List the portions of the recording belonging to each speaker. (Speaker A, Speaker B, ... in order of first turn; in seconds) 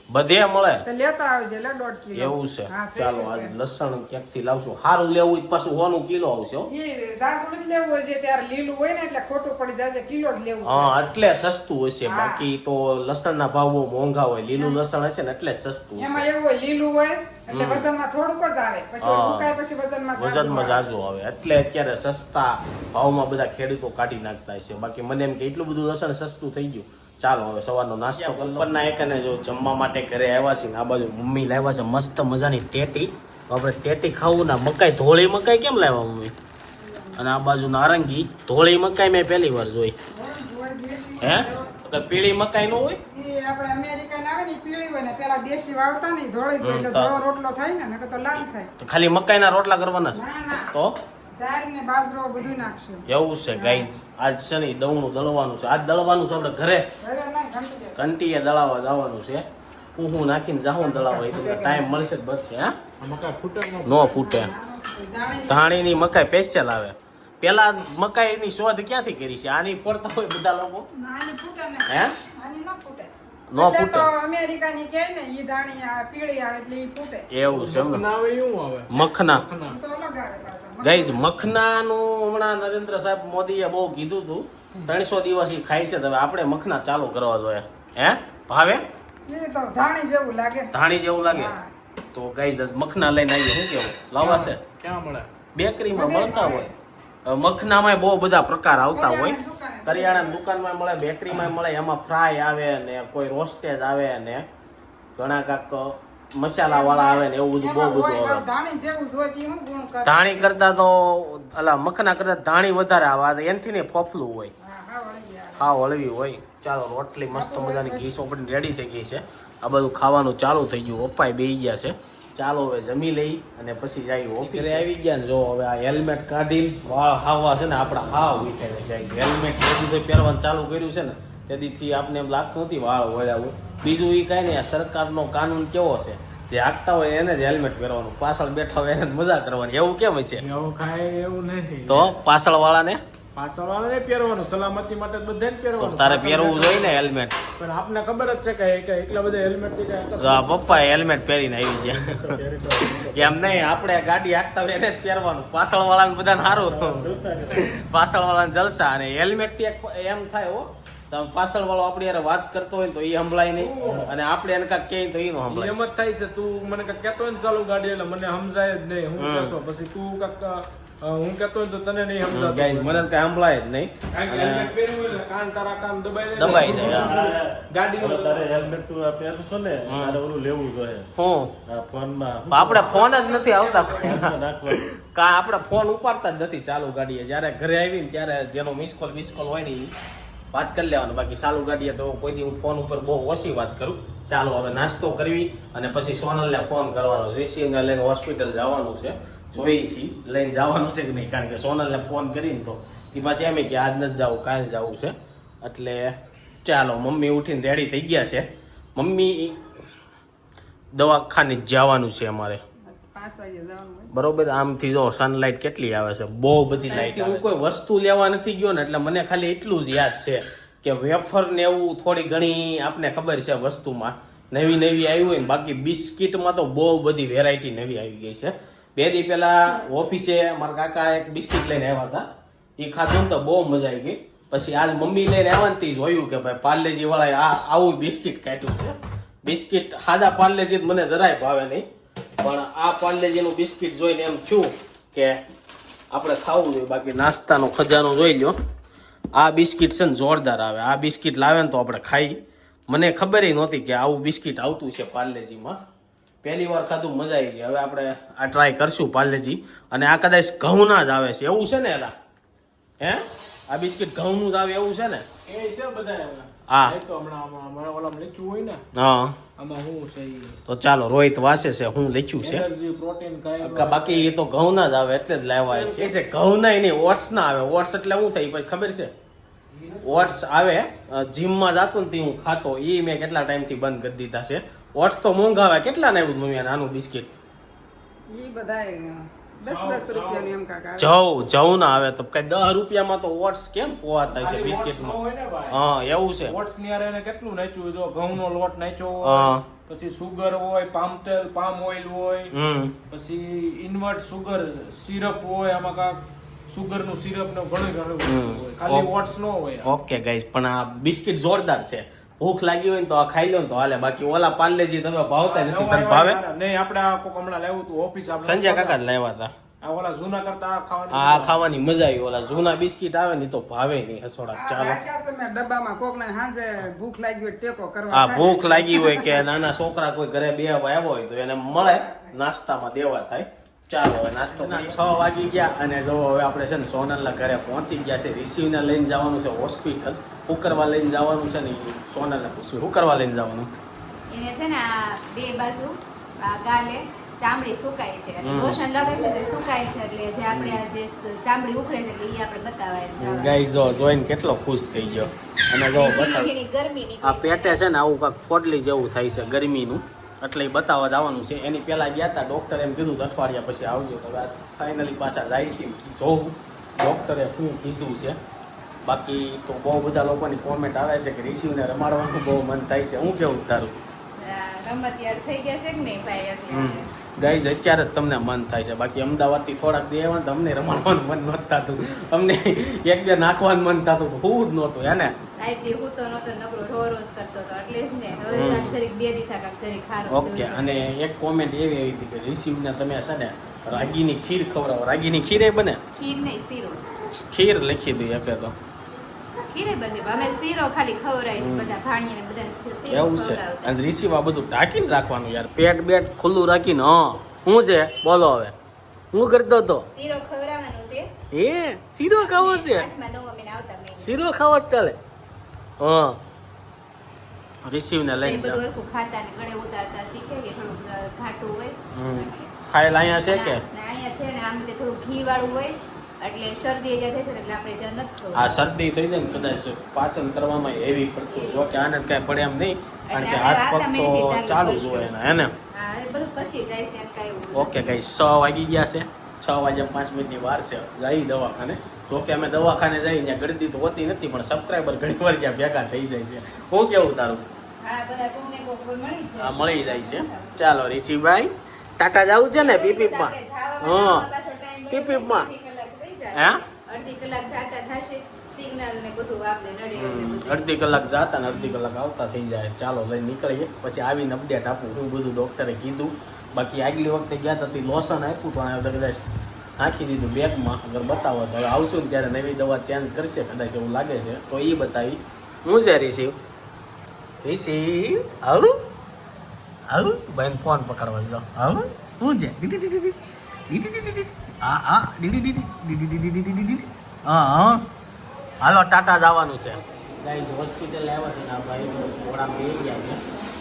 Speaker A: 0.1-0.8, 2.1-6.7, 10.7-16.3, 17.5-17.9, 19.0-19.5, 20.2-36.3, 37.2-39.9, 41.2-43.0, 46.6-47.1, 48.4-50.9, 53.1-56.9, 58.0-59.5, 60.0-62.8, 63.9-64.5, 65.5-70.9, 71.9-72.1, 73.5-74.1, 77.3-78.0, 78.9-79.5, 80.8-88.8, 90.7-91.5, 92.1-94.6, 95.5-96.7, 97.3-104.5, 105.2-108.5, 110.0-114.5, 115.6-140.4, 141.9-143.0, 145.8-147.3, 150.2-152.4, 153.1-165.7, 169.2-169.6, 172.3-174.7, 176.3-177.2, 179.9-180.2, 181.2-181.5, 182.5-189.9, 190.5-206.1, 206.7-209.6, 210.9-212.6, 214.1-232.3, 232.8-241.8, 242.4-245.4, 246.1-248.6, 249.3-252.4, 252.9-255.8, 256.4-262.1, 263.0-265.2, 266.7-267.0, 268.9-269.4, 270.7-272.7, 273.6-279.1, 280.0-287.3, 291.0-295.2, 295.7-296.6, 299.2-299.7, 302.5-302.9, 308.2-309.1, 309.8-316.4, 318.4-319.5, 321.1-325.0, 328.1-343.7, 348.4-348.9, 350.5-350.8, 353.2-356.5, 357.2-368.4, 369.1-373.9, 376.7-385.3, 388.5-389.0, 390.3-396.0, 397.4-398.8, 401.6-401.9, 403.1-408.7, 409.3-410.1, 411.5-413.1, 414.2-415.2, 416.0-416.4, 417.9-418.8, 422.1-423.8, 428.5-435.7, 437.7-447.6, 449.6-454.5, 455.1-455.7, 456.6-456.8, 460.2-469.4, 470.0-476.6, 477.6-479.0, 480.1-483.4, 483.9-488.1, 488.8-493.4
Speaker B: 0.8-3.5, 6.7-11.0, 12.1-12.5, 14.6-14.8, 16.0-20.8, 36.8-37.2, 40.1-41.7, 43.1-48.7, 50.1-50.7, 51.4-53.9, 57.0-58.0, 63.9-65.8, 71.0-77.3, 79.7-81.3, 89.3-90.7, 91.3-91.7, 95.9-96.7, 98.9-100.4, 106.6-110.5, 114.6-115.7, 117.3-118.1, 212.9-214.1, 288.3-291.2, 324.5-329.5, 331.8-332.4, 334.7-334.9
Speaker C: 60.8-62.1, 63.0-64.0, 77.5-79.8, 94.2-95.3, 124.5-124.8, 140.4-142.2, 143.3-147.0, 147.6-151.0, 163.6-164.1, 165.5-173.1, 174.1-178.7, 182.8-184.1, 217.0-217.3, 265.5-268.8, 269.6-270.6, 272.4-274.3, 275.7-276.1, 279.7-280.4, 289.6-290.5, 294.4-295.8, 296.4-302.5, 303.1-309.9, 315.4-319.0, 319.8-321.6
Speaker D: 151.8-153.7, 156.5-157.7, 163.8-164.1, 176.6-181.1, 181.7-183.0, 183.9-184.8
Speaker E: 344.3-353.7, 355.9-357.8, 359.3-359.6, 374.4-377.1, 385.6-390.9, 396.1-397.1, 399.7-404.0, 410.1-411.3, 412.4-414.3, 418.4-422.7, 423.5-428.7, 431.5-431.9, 433.3-435.3, 435.9-438.1, 448.0-451.0, 452.7-462.0